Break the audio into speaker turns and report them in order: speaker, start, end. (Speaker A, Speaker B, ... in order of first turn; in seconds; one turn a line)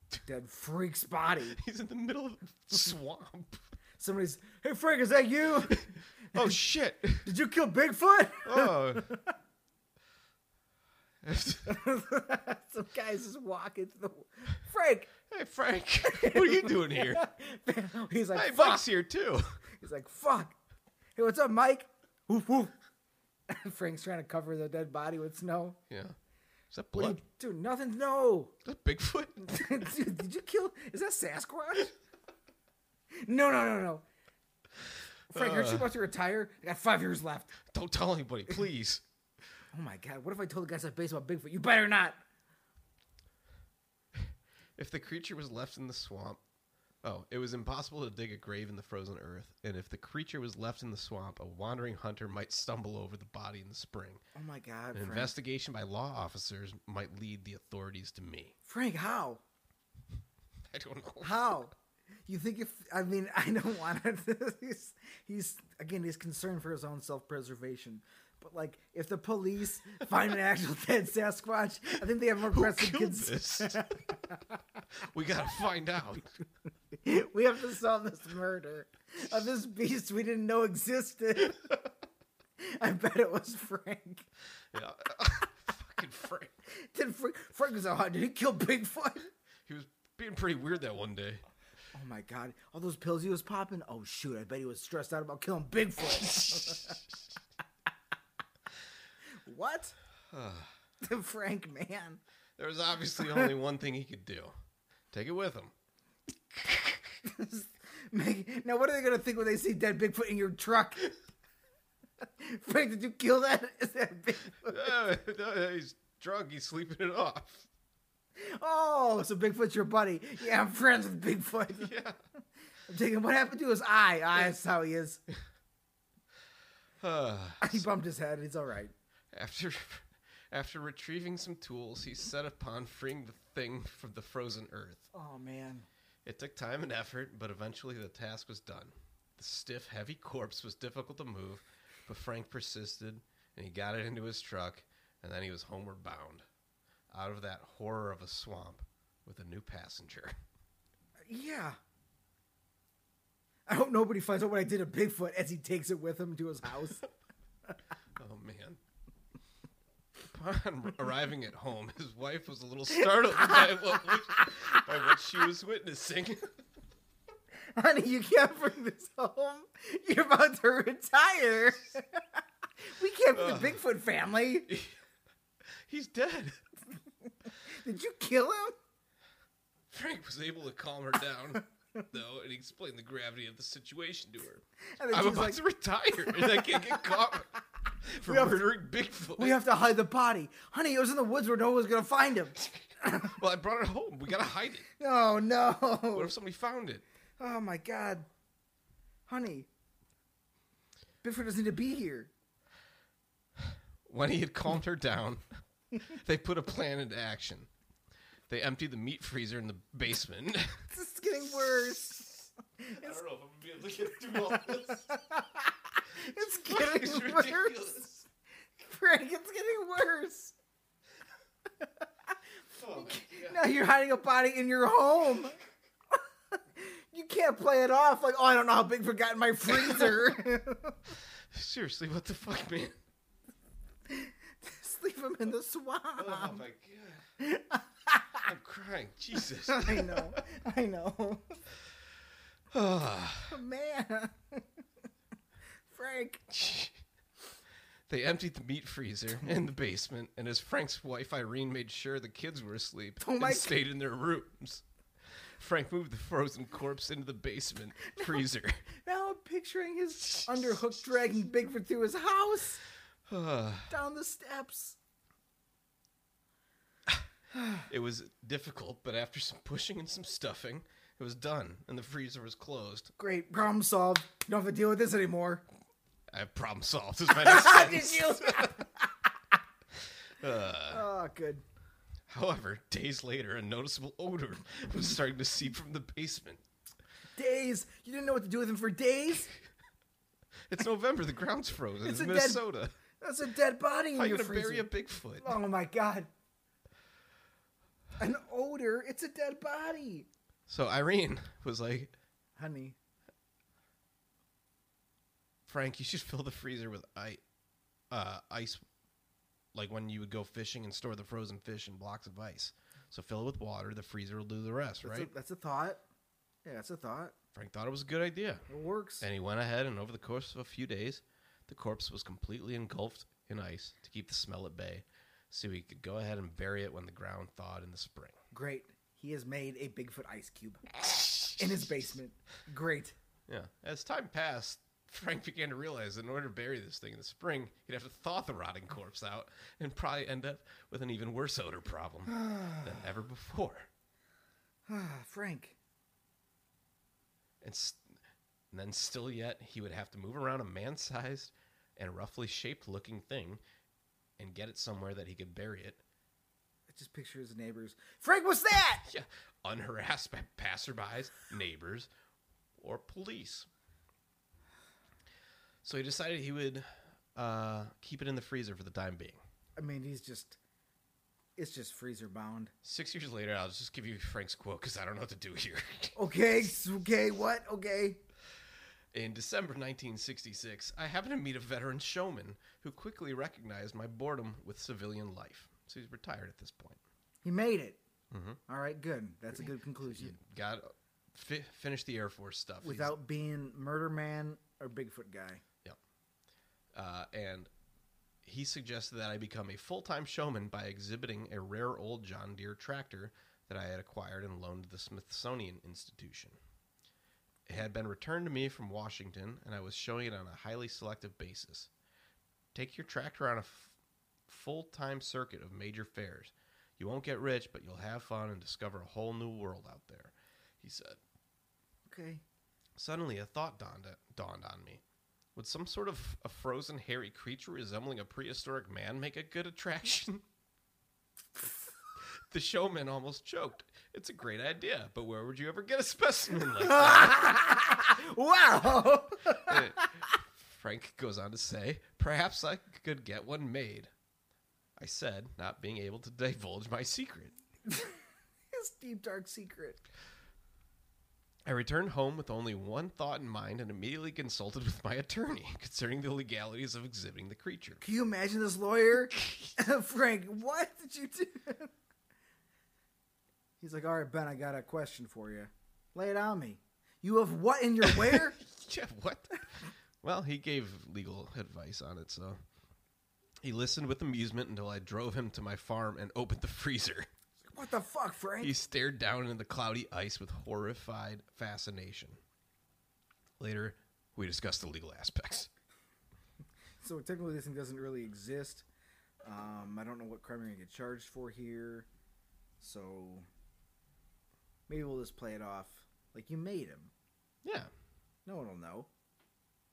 Speaker A: 0.2-1.6
Speaker B: 1.5-3.6
Speaker A: 4.0-6.4
Speaker B: 5.7-7.3
Speaker A: 7.2-9.3
Speaker B: 8.4-9.1
Speaker B: 11.2-11.8
Speaker A: 11.7-15.1
Speaker B: 15.3-17.3
Speaker A: 16.0-18.9
Speaker B: 18.3-19.6
Speaker A: 19.7-20.6
Speaker A: 21.1-22.7
Speaker A: 23.5-25.8
Speaker B: 25.9-26.1
Speaker B: 26.7-27.2
Speaker A: 26.9-28.6
Speaker B: 28.6-29.9
Speaker A: 29.4-31.9
Speaker A: 33.1-34.0
Speaker A: 35.3-37.6
Speaker B: 35.3-35.9
Speaker B: 37.7-39.0
Speaker A: 39.7-42.2
Speaker B: 44.1-46.4
Speaker B: 47.0-54.2
Speaker A: 54.3-55.3
Speaker B: 54.9-58.5
Speaker A: 58.6-59.4
Speaker B: 60.7-61.6
Speaker A: 61.2-61.7
Speaker A: 62.3-74.6
Speaker B: 72.5-73.8
Speaker B: 75.0-76.3
Speaker A: 77.0-81.8
Speaker A: 82.6-84.3
Speaker B: 84.7-86.5
Speaker A: 86.7-89.3
Speaker B: 89.7-91.4
Speaker A: 91.9-97.0
Speaker B: 96.2-97.0
Speaker A: 99.4-100.0
Speaker B: 100.3-100.7
Speaker A: 101.0-102.2
Speaker B: 102.6-104.5
Speaker B: 105.1-105.7
Speaker B: 106.5-106.9
Speaker A: 107.2-111.1
Speaker A: 112.2-114.9
Speaker B: 114.6-117.7
Speaker A: 118.3-121.9
Speaker B: 121.8-122.2
Speaker A: 122.9-125.2
Speaker B: 127.0-127.8
Speaker A: 127.6-128.9
Speaker B: 129.3-135.1
Speaker A: 135.1-135.9
Speaker B: 136.2-146.4
Speaker B: 147.1-150.3
Speaker A: 151.2-151.8
Speaker A: 153.7-157.0
Speaker B: 158.2-158.8
Speaker B: 160.3-166.5
Speaker A: 163.3-164.9
Speaker A: 167.7-174.7
Speaker B: 173.3-173.8
Speaker B: 174.7-175.0
Speaker B: 175.8-176.6
Speaker A: 177.5-178.8
Speaker B: 179.9-189.6
Speaker A: 184.9-185.6
Speaker A: 186.2-187.3
Speaker A: 188.2-188.7
Speaker A: 189.3-193.4
Speaker B: 193.3-194.9
Speaker A: 195.0-196.3
Speaker B: 196.1-197.0
Speaker A: 197.4-198.3
Speaker A: 199.3-199.7
Speaker A: 201.2-202.3
Speaker B: 203.6-205.4
Speaker B: 206.0-207.7
Speaker B: 208.5-210.9
Speaker A: 210.9-213.2
Speaker B: 213.0-215.1
Speaker A: 214.3-217.9
Speaker B: 216.2-218.2
Speaker A: 218.8-220.6
Speaker B: 222.7-223.6
Speaker A: 222.9-225.6
Speaker A: 226.1-231.1
Speaker B: 229.7-230.3
Speaker B: 231.5-233.0
Speaker A: 234.1-236.6
Speaker B: 236.2-237.2
Speaker A: 237.4-238.5
Speaker B: 238.4-240.4
Speaker A: 239.7-241.6
Speaker B: 242.7-243.6
Speaker A: 243.5-244.6
Speaker A: 245.9-246.5
Speaker B: 246.5-247.0
Speaker B: 248.1-258.9
Speaker A: 253.2-253.8
Speaker A: 258.1-262.8
Speaker B: 260.3-260.7
Speaker B: 263.3-263.9
Speaker A: 263.9-265.0
Speaker B: 267.9-273.1
Speaker A: 273.2-275.6
Speaker B: 276.3-278.7
Speaker A: 277.3-279.2
Speaker B: 280.2-281.1
Speaker A: 280.9-281.6
Speaker B: 282.3-286.6
Speaker A: 287.4-289.5
Speaker B: 290.7-293.0
Speaker A: 292.0-292.6
Speaker A: 293.2-296.3
Speaker B: 294.1-295.5
Speaker A: 298.2-300.3
Speaker B: 300.7-302.1
Speaker A: 302.6-303.0
Speaker B: 305.7-307.4
Speaker B: 308.1-308.8
Speaker B: 309.7-315.3
Speaker A: 315.0-316.0
Speaker A: 316.6-317.3
Speaker B: 317.5-318.6
Speaker A: 318.7-319.2
Speaker B: 319.2-328.4
Speaker A: 328.5-330.9
Speaker B: 330.9-332.1
Speaker A: 331.4-333.1
Speaker B: 333.5-343.9
Speaker A: 342.3-342.9
Speaker A: 344.9-345.8
Speaker B: 347.6-348.1
Speaker B: 348.7-353.6
Speaker B: 354.4-356.0
Speaker A: 356.9-359.0
Speaker B: 359.0-362.1
Speaker B: 362.8-363.7
Speaker B: 365.8-369.4
Speaker A: 369.8-370.6
Speaker A: 371.6-372.7
Speaker B: 372.8-376.1
Speaker A: 376.1-378.2
Speaker B: 379.1-387.0
Speaker A: 387.4-388.0
Speaker B: 388.3-388.6
Speaker A: 388.7-390.4
Speaker B: 390.0-393.1
Speaker A: 392.8-395.6
Speaker B: 396.9-397.7
Speaker B: 398.4-406.6
Speaker B: 407.6-411.9
Speaker B: 412.7-413.9
Speaker B: 414.5-421.2
Speaker A: 422.1-422.4
Speaker B: 422.9-425.0
Speaker B: 425.5-430.4
Speaker B: 432.2-437.5
Speaker A: 436.8-440.1
Speaker B: 439.5-444.1
Speaker B: 445.0-447.5
Speaker A: 447.9-448.2
Speaker A: 448.7-450.0
Speaker B: 451.6-458.0
Speaker A: 458.0-461.9
Speaker B: 459.4-459.7
Speaker A: 463.8-468.6
Speaker B: 468.0-472.6
Speaker B: 473.6-477.3
Speaker A: 477.7-478.7
Speaker B: 478.6-482.4
Speaker B: 483.6-485.7
Speaker A: 487.0-488.9
Speaker A: 489.4-492.1
Speaker A: 492.8-493.4
Speaker A: 494.9-497.1
Speaker B: 497.6-497.9
Speaker A: 498.4-499.1